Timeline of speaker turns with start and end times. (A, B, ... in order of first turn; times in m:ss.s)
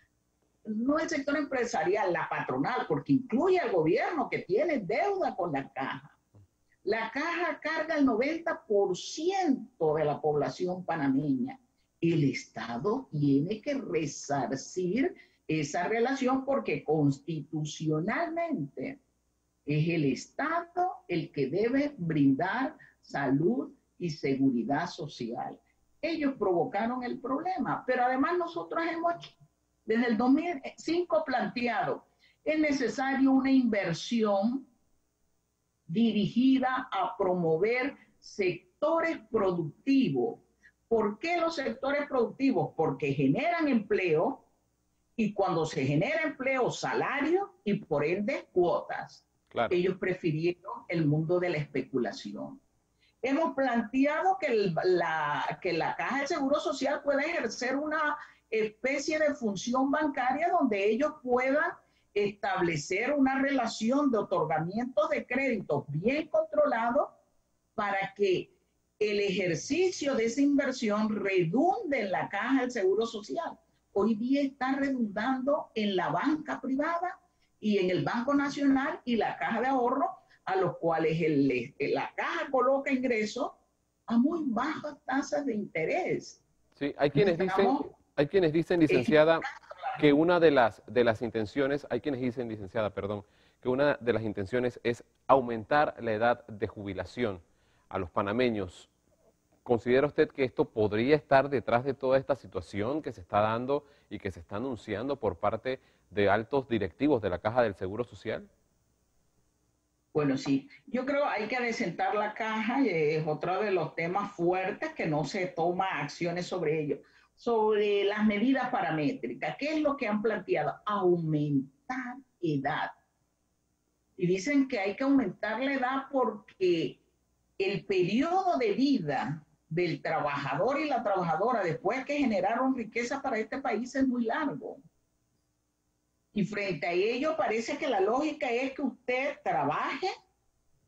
0:00.6-0:06.1 A
0:06.8-0:19.0 A
0:19.7-0:29.3 A
0:29.8-0:34.7 A
0:35.9-0:44.4 A
0:45.2-0:52.6 A
0:49.5-0:49.8 B
0:53.2-1:07.1 A
1:07.8-1:23.6 A
1:24.1-1:26.4 A
1:26.8-1:29.4 B
1:27.1-1:27.9 A
1:28.9-1:30.1 A
1:30.0-1:38.9 B
1:39.6-1:48.5 B
1:50.1-2:02.9 A
2:04.2-2:07.0 A
2:07.6-2:14.8 A
2:16.3-2:20.1 A